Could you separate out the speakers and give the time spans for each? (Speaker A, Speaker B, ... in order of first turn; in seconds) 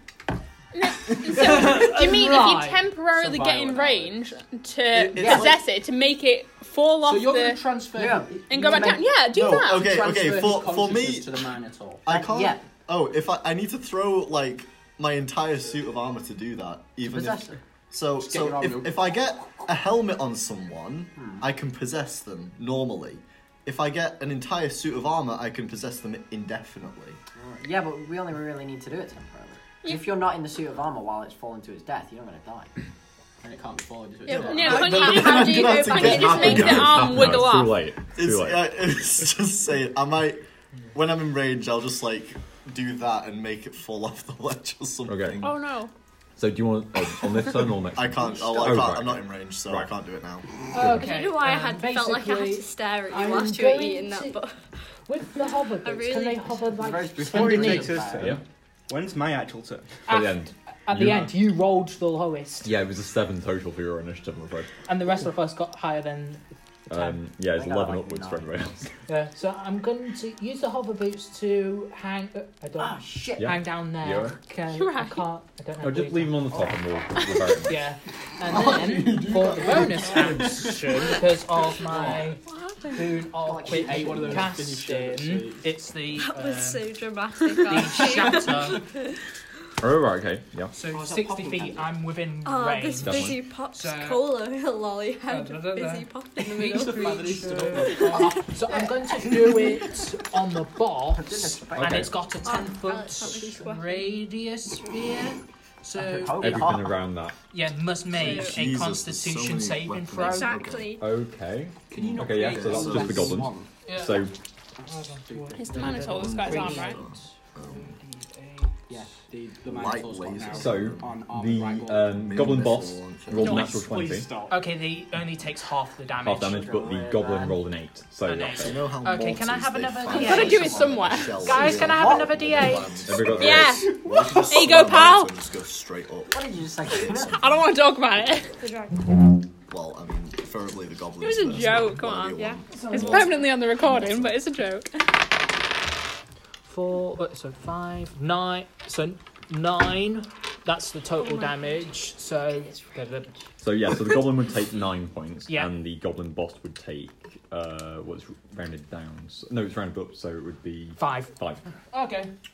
Speaker A: 0.7-7.6, 8.5-9.9, 29.8-30.1, 34.3-37.8, 45.4-45.9, 74.7-75.3, 115.6-117.0, 130.1-131.7, 133.4-135.3, 137.2-138.6, 141.2-145.0
Speaker B: 1.2-2.9, 50.7-54.4, 55.1-58.1, 60.1-62.8, 64.8-67.2, 69.1-76.6, 77.7-82.4, 82.9-86.9, 87.5-88.8, 90.7-94.3, 95.3-106.8, 107.5-110.6, 113.8-114.3, 114.8-118.7, 123.5-126.7, 128.2-133.1, 142.7-143.6, 146.6-153.3, 155.5-155.7, 161.0-161.3, 161.9-162.3
Speaker C: 3.1-4.4, 5.1-5.4, 7.0-9.0, 9.7-12.1, 18.2-19.6, 33.4-35.0, 78.5-82.2, 83.6-85.7, 88.1-88.6, 90.8-91.9, 96.6-98.5, 111.9-113.7, 114.8-116.3, 118.9-122.2, 123.6-124.5
Speaker D: 5.1-5.5, 7.9-9.0, 12.1-12.6, 17.1-17.6, 21.1-21.5, 27.3-32.7, 56.8-58.4, 67.5-68.7, 72.8-73.5, 83.5-84.5, 101.1-102.1, 105.9-106.9, 126.5-127.6, 131.8-132.9, 136.3-137.4
Speaker E: 5.1-5.5, 9.2-11.5, 12.1-27.2, 34.3-37.5, 38.1-45.6, 47.9-50.5, 108.2-111.0, 111.9-113.5, 116.0-118.0, 119.6-121.2, 122.1-123.7, 128.5-137.7, 139.7-142.6
Speaker F: 34.8-36.7, 50.8-54.7, 55.4-56.8, 82.5-83.0, 86.1-88.9, 92.4-97.2, 97.8-99.9, 102.4-104.2, 108.1-108.7, 110.1-111.0, 138.6-139.0, 151.2-151.8
Speaker G: 36.1-38.7, 45.1-45.4, 46.4-49.9, 60.1-61.3, 62.6-64.7, 66.9-68.9, 73.4-74.4, 75.8-77.8, 89.8-90.7, 93.0-93.4, 101.8-102.1, 106.4-107.3, 111.0-114.3, 120.5-124.3, 126.2-128.9, 133.1-133.8, 153.6-161.6
Speaker H: 57.2-60.0